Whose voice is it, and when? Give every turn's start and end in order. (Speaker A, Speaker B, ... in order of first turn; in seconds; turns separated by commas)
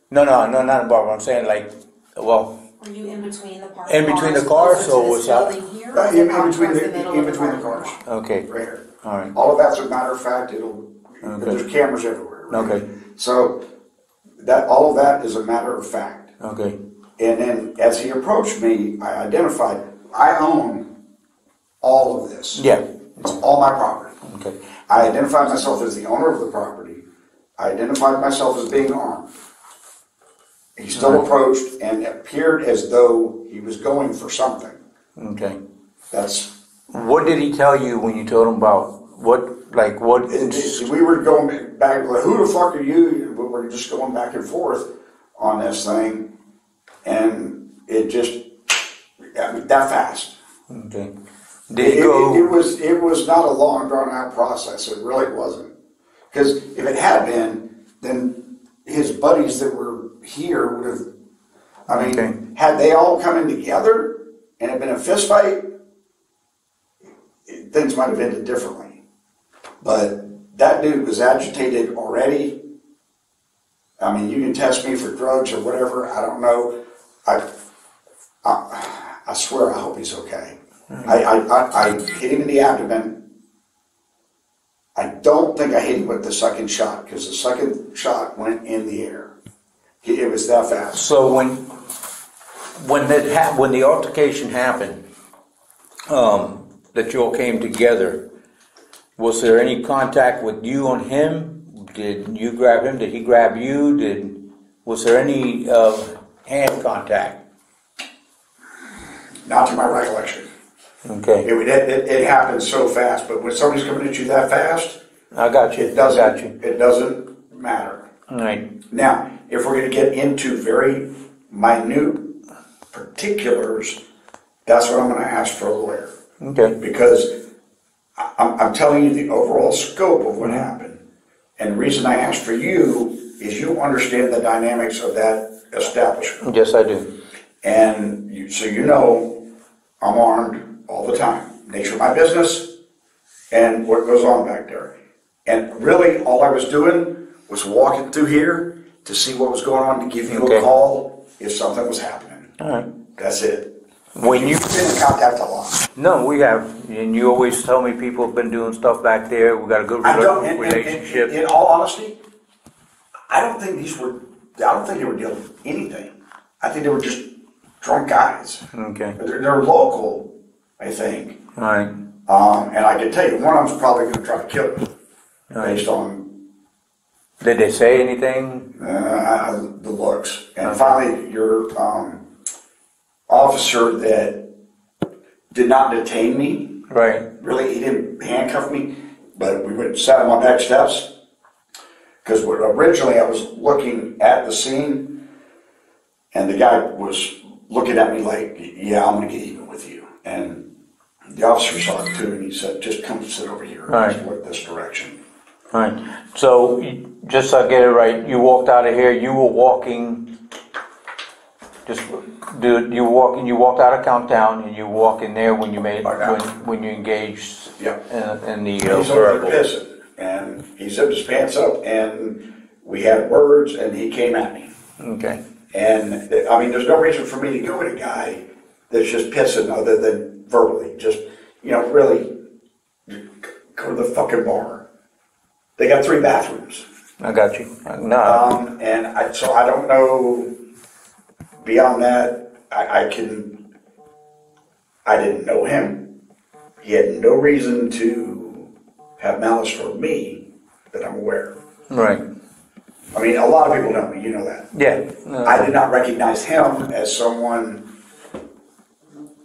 Speaker A: 0.1-2.6, Speaker B: 2.8-8.0, Speaker A: 3.9-5.5, Speaker C: 5.9-13.6, Speaker A: 8.0-8.5, Speaker A: 9.0-9.3, Speaker A: 11.2-11.6, Speaker A: 12.5-12.9, Speaker C: 14.4-16.3, Speaker A: 16.4-16.8, Speaker C: 17.2-20.9, Speaker C: 21.8-22.6, Speaker A: 22.6-22.8, Speaker C: 23.2-24.2, Speaker A: 24.2-24.6, Speaker C: 24.9-27.0, Speaker C: 27.6-29.3, Speaker C: 30.8-34.8, Speaker A: 30.9-31.3, Speaker A: 35.1-35.6, Speaker C: 36.1-36.5, Speaker A: 36.9-40.9, Speaker C: 40.3-46.3, Speaker C: 47.0-50.4, Speaker A: 50.7-51.1, Speaker A: 51.7-52.5, Speaker C: 51.8-55.7, Speaker C: 56.3-61.1, Speaker C: 61.9-65.7, Speaker A: 61.9-62.4, Speaker C: 67.5-69.0, Speaker C: 69.8-72.6, Speaker C: 74.0-77.5, Speaker C: 78.4-83.2, Speaker A: 80.9-81.2, Speaker C: 84.9-89.3, Speaker C: 90.0-91.0, Speaker A: 90.9-91.7, Speaker A: 92.8-95.0, Speaker A: 96.1-98.3, Speaker A: 99.2-107.4, Speaker C: 109.4-110.5, Speaker A: 111.0-111.5, Speaker C: 111.4-115.0, Speaker A: 115.3-116.5, Speaker C: 115.7-118.1, Speaker A: 118.3-118.7, Speaker C: 118.9-122.3, Speaker C: 122.9-124.0, Speaker C: 124.7-126.1, Speaker A: 126.4-126.8, Speaker C: 126.8-127.4, Speaker C: 128.2-131.0, Speaker C: 131.6-136.4, Speaker A: 136.4-137.1, Speaker C: 137.6-139.4, Speaker C: 140.0-142.7, Speaker C: 143.5-144.9, Speaker C: 145.4-152.5, Speaker A: 150.3-150.7, Speaker A: 152.6-152.9, Speaker C: 153.2-155.8, Speaker A: 154.2-154.7, Speaker A: 155.9-161.3, Speaker C: 160.0-162.2, Speaker C: 163.3-167.3, Speaker C: 167.8-168.6, Speaker A: 168.7-169.2, Speaker C: 169.2-171.4, Speaker A: 171.6-171.9, Speaker C: 172.3-174.9, Speaker A: 175.5-175.8, Speaker C: 175.6-176.3, Speaker A: 177.4-178.7, Speaker C: 178.8-182.2, Speaker A: 180.6-181.0, Speaker C: 183.3-184.5, Speaker C: 185.5-186.8, Speaker A: 186.9-187.3, Speaker C: 187.4-191.1, Speaker C: 192.2-195.2, Speaker C: 196.3-200.7, Speaker C: 201.2-205.2, Speaker A: 203.9-204.2, Speaker A: 205.7-210.3, Speaker A: 211.8-219.6, Speaker C: 216.0-216.4, Speaker C: 218.8-224.7, Speaker A: 225.0-225.4, Speaker C: 225.7-232.3, Speaker C: 233.1-234.8, Speaker C: 235.8-236.8, Speaker A: 237.2-238.5, Speaker C: 238.2-240.5, Speaker C: 241.6-243.6, Speaker C: 245.0-246.1, Speaker C: 246.8-251.6, Speaker A: 251.9-252.2, Speaker C: 253.1-254.7, Speaker A: 254.7-255.7, Speaker C: 255.4-257.9